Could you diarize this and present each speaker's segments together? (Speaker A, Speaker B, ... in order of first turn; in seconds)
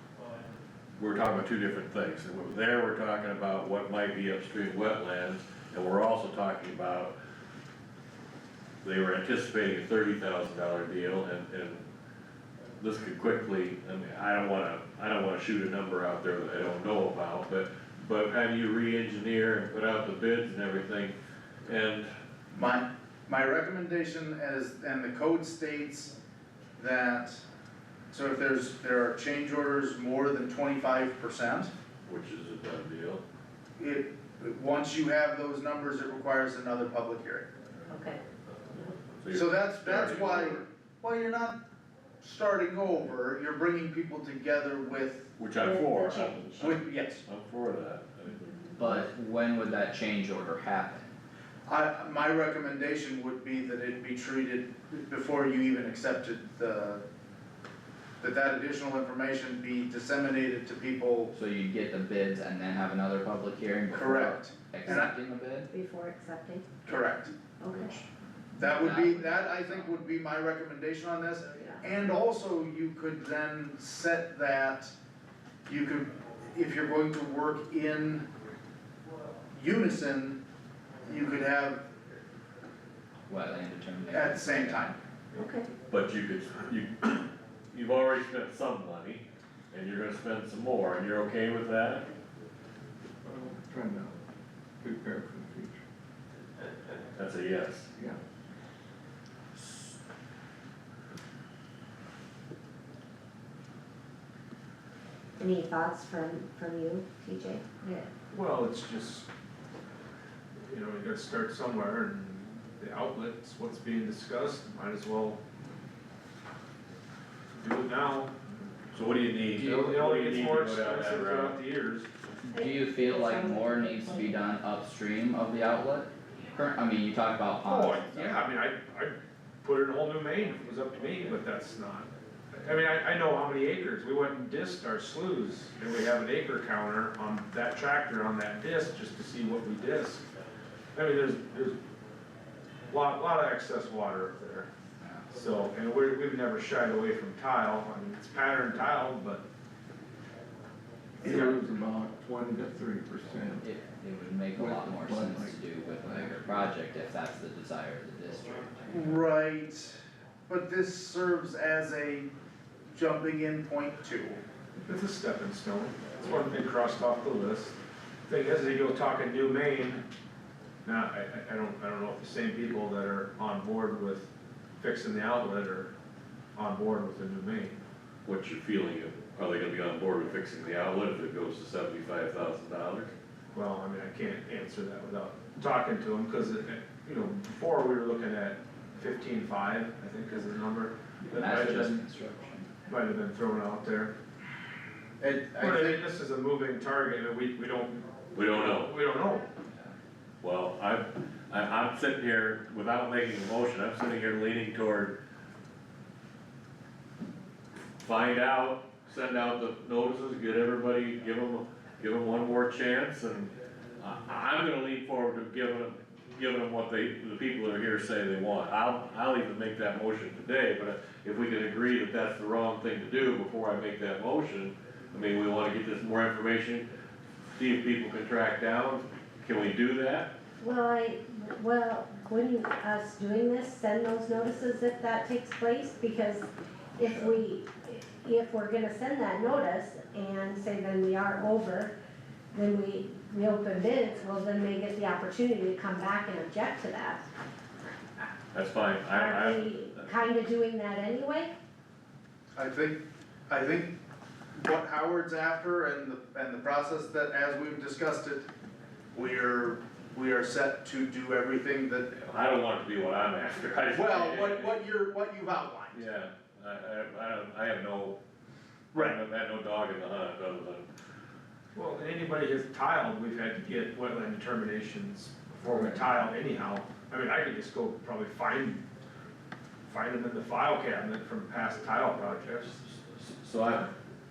Speaker A: 1.0-7.1, 8.8-11.8, 12.8-21.1, 21.6-22.1, 32.0-33.2, 38.8-40.6, 45.4-48.6, 85.9-92.1, 97.1-97.9, 118.9-121.6, 178.2-183.1, 198.3-198.9, 200.4-205.2, 208.0-226.9, 227.6-230.3, 248.5-250.2, 262.2-264.8, 265.9-268.2, 268.9-270.9, 282.9-283.9
Speaker B: 22.5-26.1, 26.8-27.4, 28.1-31.7, 33.8-37.5, 39.3-41.6, 42.2-45.3, 46.6-47.2, 51.7-57.0, 58.2-61.3, 63.9-65.1, 66.8-67.3, 68.6-74.9, 75.7-78.3, 79.5-80.4, 81.0-81.9, 84.1-85.0, 158.9-162.3, 162.9-164.4, 195.2-196.0, 252.6-253.9, 254.6-258.5, 259.1-262.2, 263.9-266.1, 268.9-269.2
Speaker C: 37.9-38.2, 45.6-46.6, 65.7-67.0, 67.6-68.0, 85.3-85.7, 105.4-108.1, 122.5-124.3, 230.6-241.9, 242.5-247.3, 249.1-251.5
Speaker D: 48.8-51.1, 61.3-65.7, 68.6-70.0, 83.3-84.9, 122.5-128.5, 145.0-145.2, 153.6-159.1, 191.3-192.7
Speaker E: 93.2-94.2, 94.8-95.8, 98.0-98.2, 151.2-153.7, 154.6-156.7
Speaker F: 108.3-109.3, 110.7-115.4, 117.5-118.3, 119.4-122.1, 127.6-140.2, 140.9-141.8, 142.9-144.7, 145.3-149.4, 164.8-170.0, 170.8-175.9, 176.6-177.8, 183.5-191.9, 192.8-194.1, 195.6-199.5, 271.7-278.8, 279.9-282.8